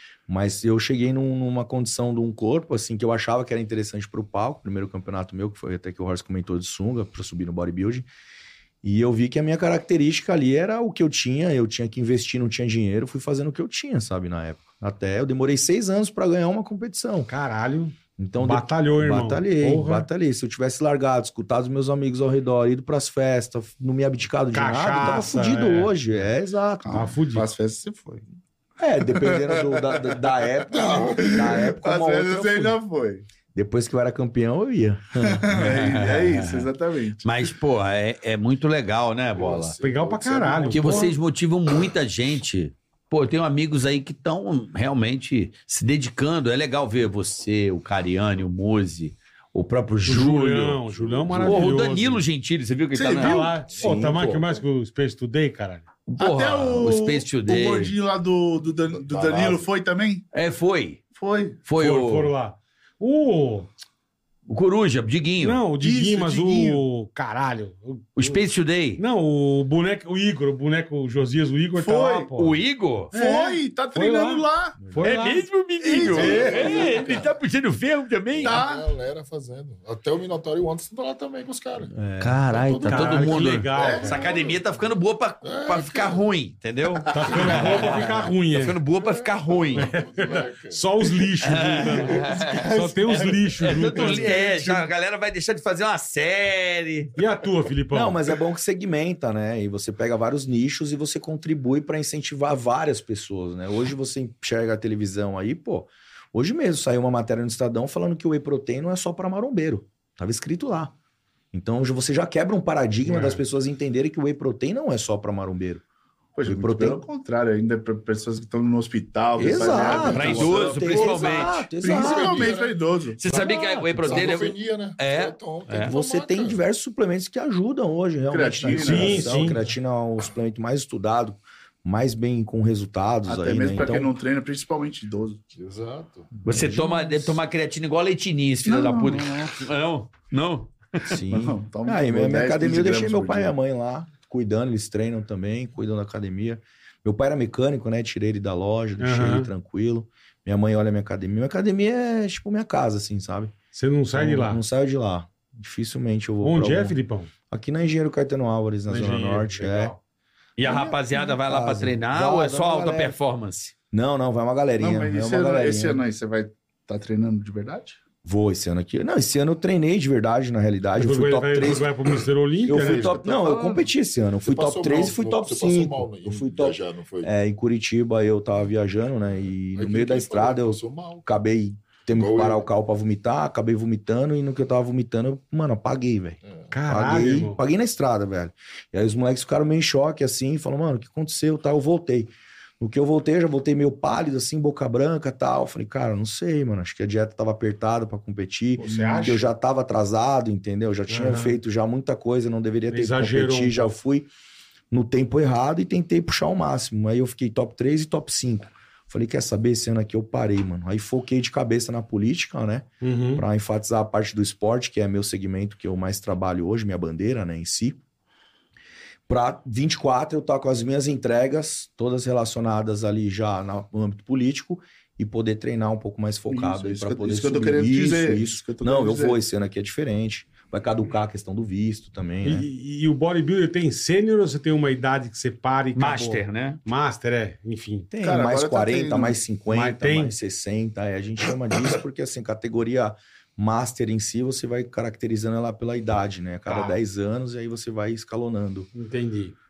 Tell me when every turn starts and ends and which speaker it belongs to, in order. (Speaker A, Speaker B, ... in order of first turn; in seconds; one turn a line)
Speaker A: 0.3-8.1
Speaker A: 8.8-17.3
Speaker B: 17.3-20.1
Speaker A: 18.2-27.0
Speaker B: 24.5-25.9
Speaker C: 26.8-28.2
Speaker B: 26.9-27.5
Speaker A: 28.8-32.8
Speaker C: 29.1-30.2
Speaker D: 30.7-31.7
Speaker C: 31.0-33.2
Speaker A: 33.5-35.6
Speaker C: 35.2-37.2
Speaker E: 35.5-36.7
Speaker E: 37.2-39.7
Speaker D: 39.3-41.2
Speaker B: 39.8-41.1
Speaker E: 40.7-50.8
Speaker B: 50.0-52.2
Speaker D: 50.9-51.9
Speaker E: 51.4-53.5
Speaker C: 52.9-53.6
Speaker B: 53.1-55.8
Speaker D: 53.4-54.6
Speaker A: 53.8-54.2
Speaker E: 56.1-57.9
Speaker C: 56.2-60.2
Speaker D: 58.9-59.6
Speaker E: 60.3-61.0
Speaker C: 61.1-61.7
Speaker E: 61.6-62.3
Speaker B: 61.8-63.7
Speaker E: 64.5-65.6
Speaker B: 65.4-68.4
Speaker C: 65.7-66.8
Speaker E: 68.2-69.0
Speaker B: 69.0-72.6
Speaker C: 71.8-72.3
Speaker E: 72.4-73.1
Speaker C: 73.1-75.2
Speaker B: 73.1-75.5
Speaker A: 74.8-75.1
Speaker E: 75.0-78.6
Speaker C: 75.8-76.9
Speaker B: 76.0-77.0
Speaker D: 76.0-77.3
Speaker D: 78.3-81.9
Speaker C: 78.4-78.9
Speaker A: 81.9-82.9
Speaker E: 82.2-90.0
Speaker D: 82.5-84.9
Speaker B: 82.9-84.2
Speaker C: 83.7-84.2
Speaker D: 85.4-86.2
Speaker B: 87.1-88.8
Speaker D: 87.2-91.3
Speaker B: 89.7-94.6
Speaker E: 91.4-97.2
Speaker D: 92.1-92.5
Speaker C: 92.2-94.7
Speaker B: 97.2-98.2
Speaker A: 97.9-110.9
Speaker A: 111.5-115.8
Speaker B: 113.1-113.4
Speaker C: 116.3-123.3
Speaker A: 116.4-117.0
Speaker A: 119.4-122.5
Speaker D: 119.4-122.7
Speaker E: 120.0-121.7
Speaker E: 123.2-125.9
Speaker A: 123.3-124.2
Speaker D: 124.0-126.6
Speaker A: 125.8-134.1
Speaker C: 128.3-129.4
Speaker B: 128.8-129.6
Speaker C: 133.2-135.4
Speaker D: 135.5-136.3
Speaker A: 136.4-137.4
Speaker E: 136.4-141.2
Speaker C: 138.6-139.5
Speaker A: 141.0-153.6
Speaker C: 141.3-143.5
Speaker B: 149.0-149.5
Speaker B: 153.7-154.6
Speaker A: 154.1-157.0
Speaker B: 156.4-157.3
Speaker A: 157.5-159.9
Speaker B: 158.9-160.0
Speaker E: 160.6-163.7
Speaker A: 160.6-163.2
Speaker A: 163.9-166.0
Speaker C: 164.8-168.0
Speaker A: 168.2-171.9
Speaker B: 171.0-173.1
Speaker A: 172.7-204.3
Speaker D: 172.7-173.9
Speaker D: 174.4-177.3
Speaker D: 179.7-181.3
Speaker D: 182.1-182.7
Speaker D: 186.4-186.7
Speaker B: 186.7-187.6
Speaker B: 198.8-199.5
Speaker B: 201.1-201.6
Speaker B: 202.9-203.9
Speaker A: 204.9-218.0
Speaker B: 213.0-213.4
Speaker A: 219.3-232.7
Speaker C: 226.5-229.4
Speaker B: 232.4-238.1
Speaker E: 235.9-236.8
Speaker A: 238.1-248.9
Speaker C: 238.2-239.4
Speaker B: 239.7-240.3
Speaker B: 246.7-247.0
Speaker B: 248.9-249.5